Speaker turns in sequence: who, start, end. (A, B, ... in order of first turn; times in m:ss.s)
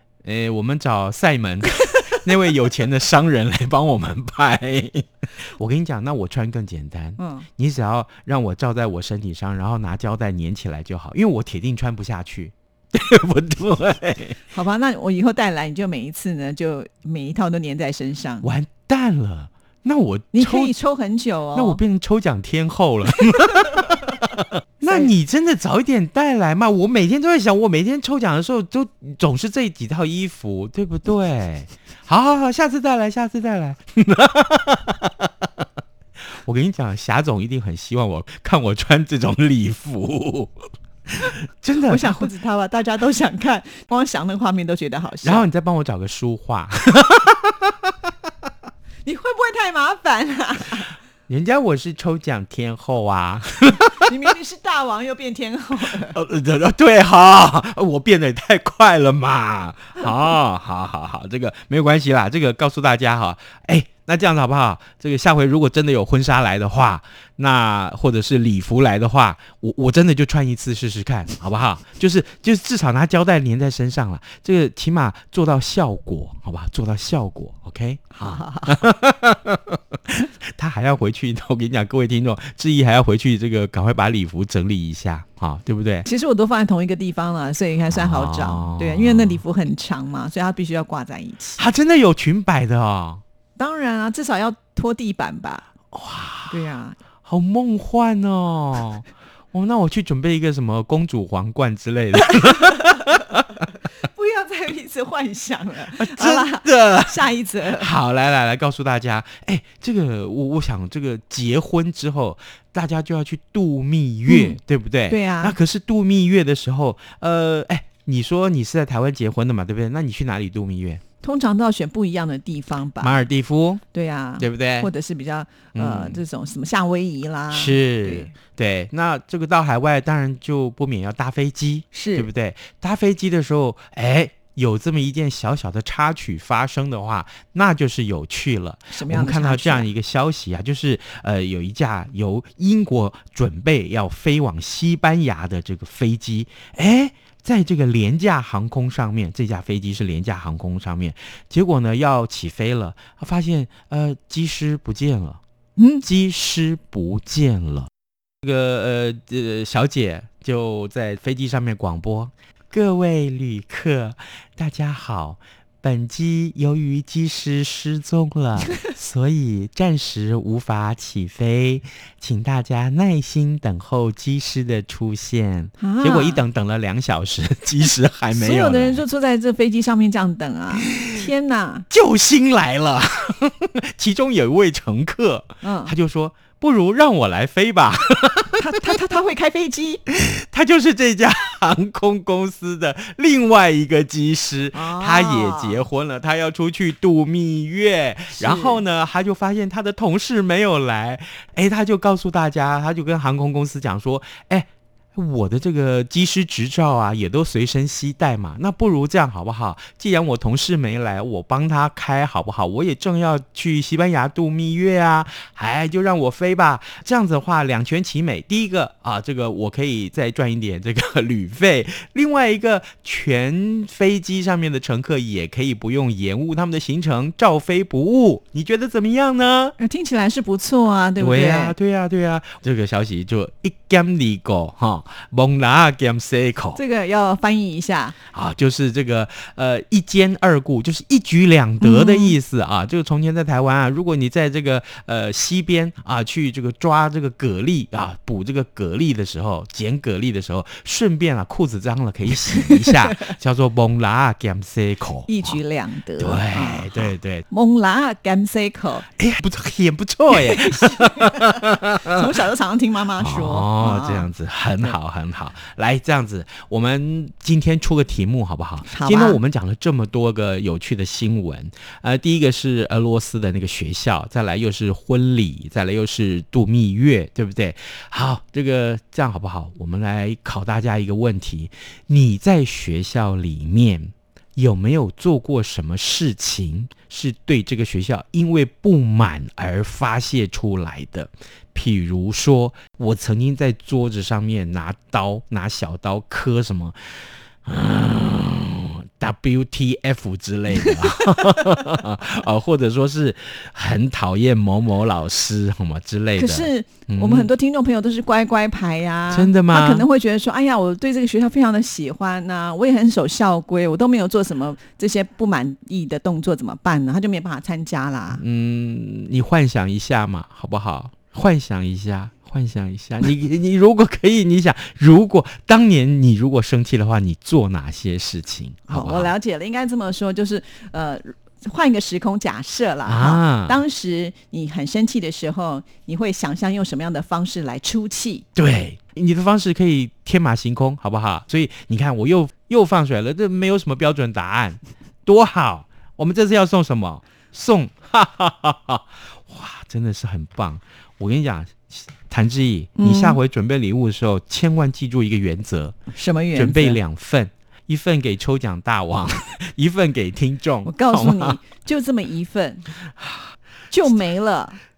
0:00.2-0:14.4 A
0:07.2-0:07.5 B
0:14.5-0:18.5 B
0:18.4-0:20.7 A
0:20.3-0:21.8 B
0:21.5-0:35.6 A
0:24.8-0:25.1 B
0:36.4-0:40.6 A
0:41.1-0:42.3 A
0:41.9-0:45.5 B
0:45.2-0:48.1 A
0:49.0-0:51.0 B
0:51.3-0:54.3 A
0:54.0-0:56.2 B
0:55.8-1:26.1 A
1:18.2-1:18.8 B
1:26.0-1:31.6 B
1:27.9-1:29.4 A
1:31.6-1:33.2 A
1:33.6-1:35.7 B
1:35.9-1:36.6 A
1:36.5-1:37.0 B
1:37.2-1:43.4 A
1:44.0-1:47.9 B
1:45.9-2:01.0 A
1:54.3-1:54.6 B
1:55.1-1:55.6 B
2:01.2-2:03.2 B
2:03.0-2:03.8 A
2:03.9-2:08.3 B
2:04.4-2:04.9 A
2:05.8-2:06.2 A
2:07.5-2:35.4 A
2:11.9-2:12.3 B
2:18.9-2:19.9 B
2:35.8-2:36.0 B
2:36.0-2:37.9 A
2:38.4-2:59.0 A
2:55.8-2:56.4 B
2:58.3-3:01.9 B
3:00.7-3:01.2 A
3:01.9-3:08.7 A
3:05.6-3:05.9 B
3:08.6-3:10.0 B
3:10.1-3:49.8 A
3:14.7-3:15.9 B
3:18.4-3:18.8 B
3:49.8-3:51.8 B
3:51.2-3:56.8 A
3:56.8-3:58.2 B
3:58.3-4:15.6 A
4:01.8-4:02.4 B
4:12.5-4:13.3 B
4:15.3-4:19.1 B
4:16.2-4:17.5 A
4:19.2-4:22.2 A
4:20.4-4:25.0 B
4:23.2-5:07.5 A
4:28.9-4:29.4 B
5:06.4-5:18.4 B
5:09.3-5:10.1 A
5:18.3-5:29.3 A
5:28.9-5:38.5 B
5:33.0-5:33.8 A
5:38.6-5:56.0 A
5:53.0-5:53.4 B
5:56.1-5:57.0 B
5:56.5-6:01.6 A
6:00.8-6:02.9 B
6:03.9-6:04.8 B